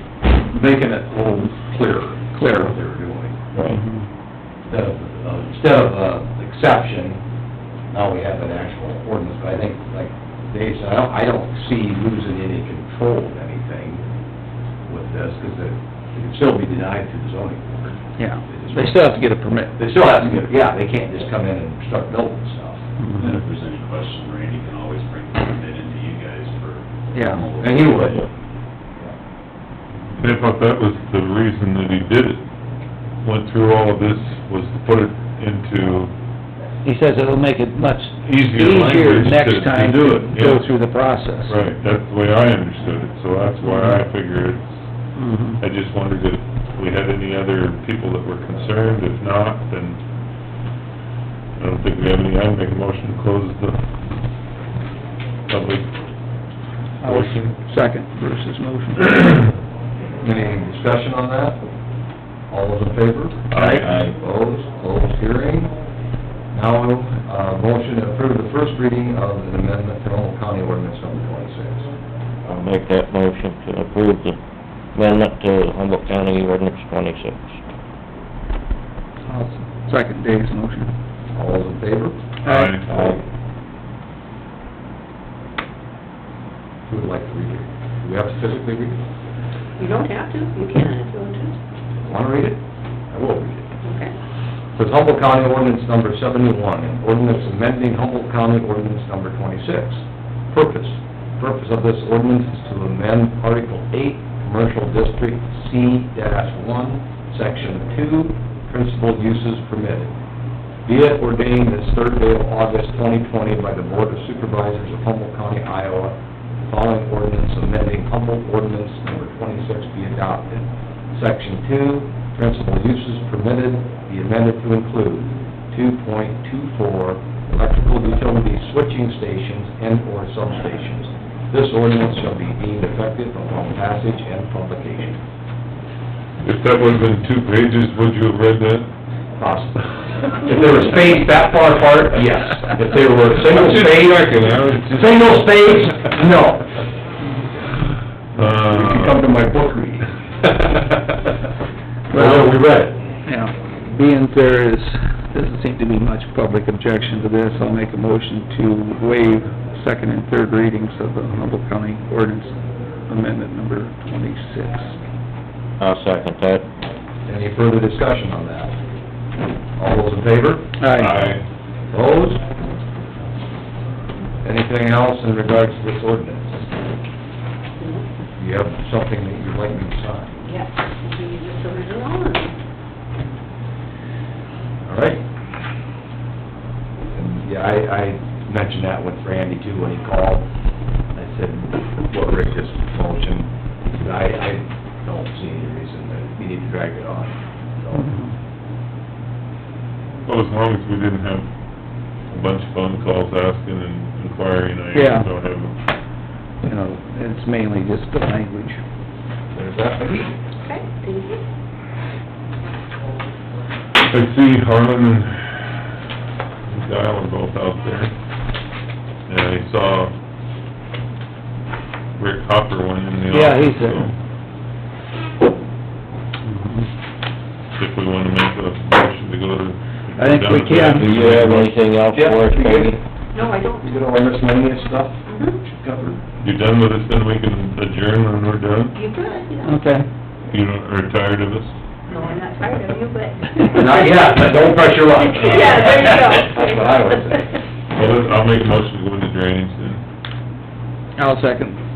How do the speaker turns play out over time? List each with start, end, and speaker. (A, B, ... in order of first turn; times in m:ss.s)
0:00.5-0:03.4 A
0:02.4-0:02.7 B
0:03.5-0:03.8 C
0:04.7-0:07.2 A
0:07.9-0:14.0 A
0:14.8-0:19.0 A
0:18.2-0:19.8 B
0:19.8-0:22.8 A
0:23.0-0:23.4 B
0:23.2-0:28.3 D
0:27.1-0:27.4 B
0:27.6-0:28.2 A
0:30.2-0:32.4 E
0:33.2-0:36.1 E
0:36.8-0:41.6 B
0:38.2-0:40.7 E
0:41.4-0:44.7 E
0:43.7-0:44.0 B
0:45.2-0:45.6 B
0:45.6-0:50.0 E
0:51.6-0:53.8 E
0:55.5-0:55.9 E
0:57.0-0:59.5 B
0:57.0-0:57.5 E
1:00.2-1:01.6 A
1:02.5-1:05.7 A
1:03.5-1:03.9 E
1:03.6-1:03.8 B
1:03.8-1:04.1 C
1:06.5-1:11.9 A
1:12.4-1:14.4 C
1:15.0-1:17.5 C
1:19.2-1:20.9 B
1:21.3-1:22.2 A
1:22.4-1:22.8 E
1:22.4-1:22.8 B
1:22.9-1:23.2 C
1:26.9-1:29.0 A
1:29.8-1:31.6 F
1:32.0-1:33.7 A
1:33.8-1:34.1 F
1:34.8-1:50.1 A
1:50.9-1:56.2 A
1:56.7-2:15.2 A
2:16.4-2:18.9 E
2:19.4-2:26.8 A
2:23.5-2:25.2 E
2:28.3-2:29.2 E
2:28.4-2:31.1 A
2:32.1-2:32.6 B
2:32.1-2:33.0 A
2:33.2-2:45.0 B
2:45.8-2:46.7 C
2:47.3-2:48.8 A
2:49.8-2:50.7 A
2:50.8-2:51.1 B
2:50.9-2:51.4 E
2:51.9-2:52.4 A
2:54.4-2:56.6 A
2:57.8-2:58.0 F
2:58.4-3:00.4 A
3:00.4-3:02.5 F
3:04.8-3:05.2 A
3:07.1-3:10.4 A
3:11.1-3:18.1 A
3:18.0-3:18.3 B
3:20.2-3:21.5 E
3:22.3-3:25.7 E
3:24.9-3:25.3 B
3:26.6-3:28.8 B
3:29.5-3:30.3 A
3:30.6-3:31.4 F
3:34.0-3:35.7 E
3:36.7-3:38.1 E
3:39.3-3:40.1 E
3:42.2-3:44.1 E
3:43.3-3:44.1 B
3:46.4-3:46.9 B
3:47.8-3:51.7 E
3:50.2-3:51.1 B
3:50.9-3:53.0 C
3:52.1-3:56.2 A
3:53.3-3:54.0 F
3:55.3-3:55.6 F
3:56.4-3:59.0 E
3:58.9-3:59.8 F
3:59.6-4:00.0 B
4:00.5-4:02.2 E
4:02.1-4:04.5 F
4:03.6-4:08.0 A
4:05.2-4:07.4 F
4:05.5-4:05.8 E
4:07.9-4:10.0 E
4:11.2-4:11.8 B